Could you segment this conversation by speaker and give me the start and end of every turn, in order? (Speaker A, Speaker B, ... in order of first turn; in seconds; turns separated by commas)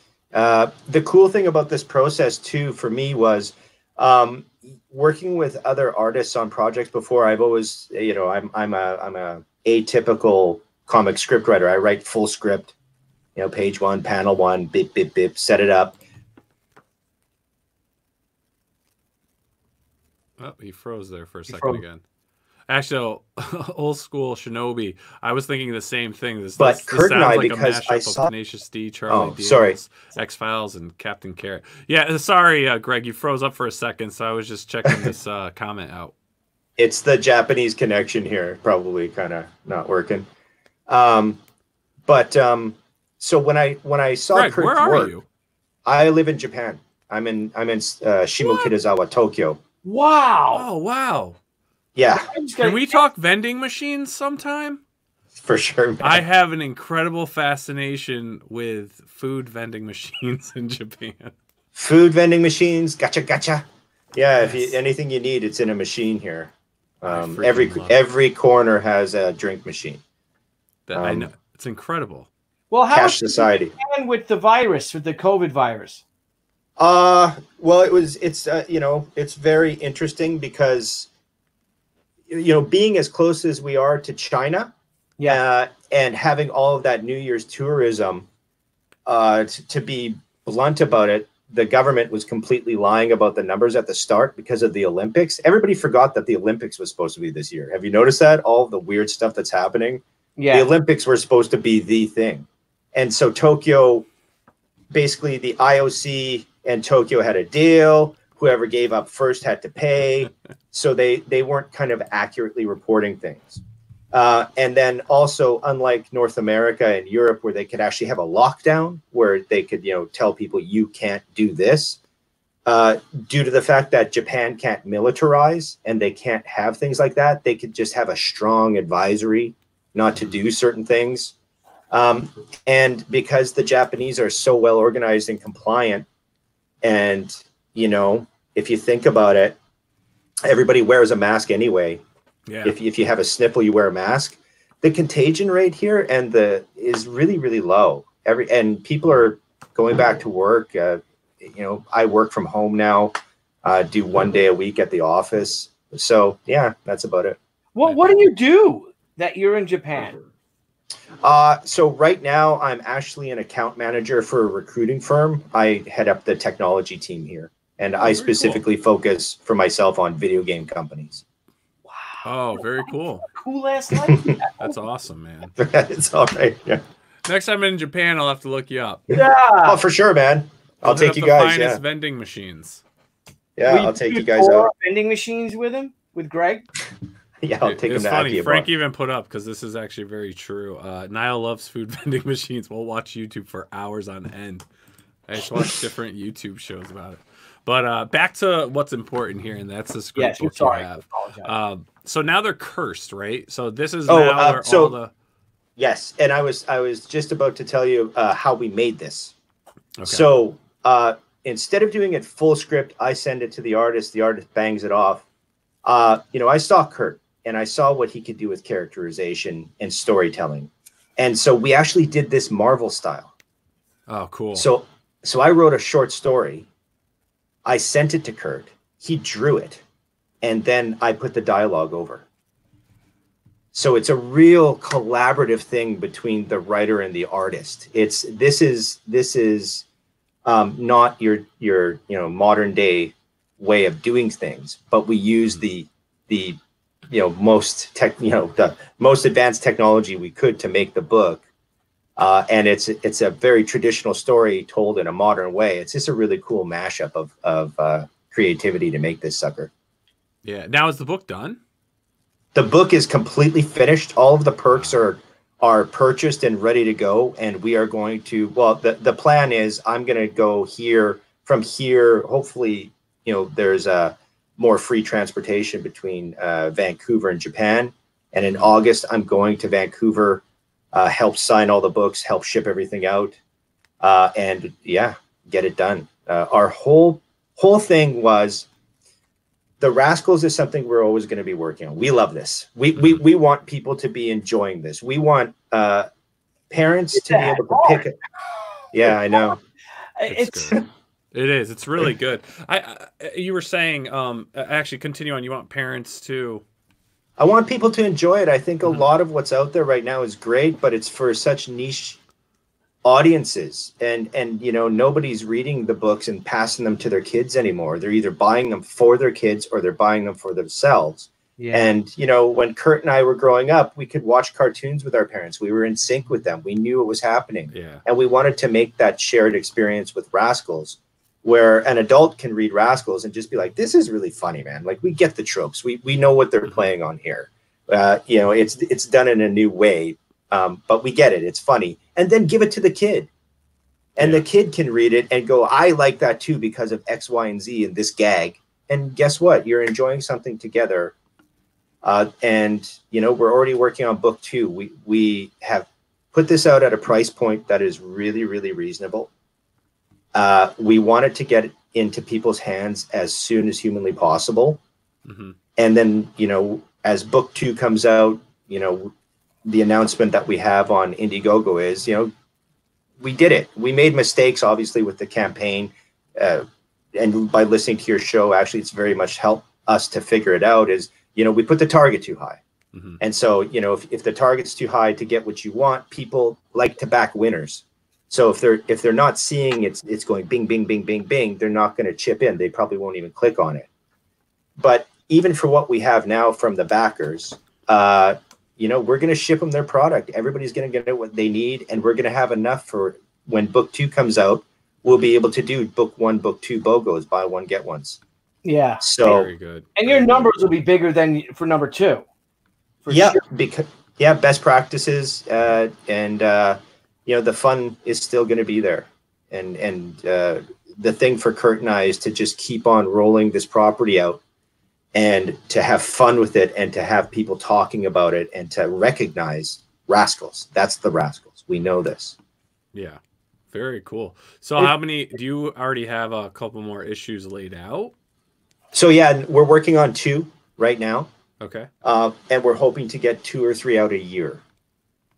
Speaker A: 0.3-12.7, Speaker A: 13.3-16.0, Speaker B: 20.4-22.0, Speaker C: 21.5-21.8, Speaker B: 22.7-36.1, Speaker A: 26.6-28.3, Speaker A: 29.1-29.8, Speaker A: 36.8-40.3, Speaker A: 40.9-41.4, Speaker A: 42.1-45.1, Speaker B: 44.3-45.2, Speaker A: 45.9-49.6, Speaker B: 48.4-48.7, Speaker C: 49.8-50.7, Speaker B: 50.5-51.4, Speaker A: 52.0-52.3, Speaker C: 52.1-53.0, Speaker B: 52.6-54.8, Speaker A: 55.4-56.2, Speaker B: 56.0-61.3, Speaker A: 61.7-70.0, Speaker B: 64.4-64.7, Speaker B: 67.0-68.0, Speaker B: 70.9-72.3, Speaker A: 70.9-71.3, Speaker C: 72.7-76.0, Speaker A: 72.9-73.7, Speaker A: 76.8-81.1, Speaker A: 82.3-84.7, Speaker A: 85.2-88.3, Speaker A: 89.0-104.1, Speaker C: 100.3-100.7, Speaker A: 104.9-113.6, Speaker A: 114.1-122.0, Speaker A: 122.7-131.3, Speaker A: 131.9-136.1, Speaker A: 136.8-139.6, Speaker A: 140.4-142.0, Speaker B: 142.5-142.8, Speaker A: 142.6-157.4, Speaker C: 157.7-160.2, Speaker B: 157.8-158.2, Speaker A: 161.2-171.2, Speaker B: 168.0-168.6, Speaker C: 171.9-172.2, Speaker B: 172.2-173.3, Speaker C: 173.3-174.7, Speaker A: 174.1-174.4, Speaker B: 174.6-175.5, Speaker A: 175.6-176.8, Speaker B: 177.2-179.0, Speaker C: 179.1-179.8, Speaker A: 179.1-181.8, Speaker B: 180.8-182.8, Speaker A: 183.6-184.7, Speaker C: 183.6-186.7, Speaker A: 187.4-188.7, Speaker B: 187.6-194.6, Speaker B: 195.3-205.1, Speaker C: 200.2-201.5, Speaker A: 204.1-204.9, Speaker A: 205.8-209.3, Speaker B: 210.0-210.3, Speaker A: 210.1-215.2, Speaker A: 215.8-223.3, Speaker B: 224.1-224.7, Speaker A: 224.5-226.7, Speaker A: 227.6-229.8, Speaker A: 230.4-232.2, Speaker A: 233.7-239.8, Speaker A: 240.4-246.6, Speaker A: 247.1-251.4, Speaker A: 252.2-259.7, Speaker B: 260.4-261.6, Speaker A: 262.5-283.4, Speaker B: 264.7-265.0, Speaker A: 284.0-288.7, Speaker A: 289.8-296.1, Speaker B: 292.9-293.2, Speaker A: 296.7-298.2, Speaker C: 297.1-298.1, Speaker A: 298.9-299.6, Speaker C: 299.0-299.6, Speaker C: 300.2-300.8, Speaker B: 300.3-306.6, Speaker A: 307.4-312.2, Speaker A: 313.0-343.3, Speaker C: 321.6-321.9, Speaker B: 327.7-328.0, Speaker A: 344.1-351.1, Speaker B: 344.2-344.4, Speaker A: 352.0-359.3, Speaker A: 360.3-364.8, Speaker B: 365.2-365.6, Speaker A: 365.8-369.1, Speaker A: 369.6-372.3, Speaker A: 373.2-382.6, Speaker B: 382.9-383.2, Speaker A: 383.2-393.9, Speaker A: 394.8-408.2, Speaker B: 405.1-405.3, Speaker C: 408.6-409.4, Speaker A: 409.0-409.5, Speaker B: 409.2-410.7, Speaker C: 410.0-412.2, Speaker C: 413.0-413.4, Speaker A: 413.1-424.4, Speaker A: 425.1-432.4, Speaker B: 432.9-433.2, Speaker B: 433.7-438.1, Speaker A: 438.9-441.3, Speaker B: 441.6-441.9, Speaker A: 442.0-444.6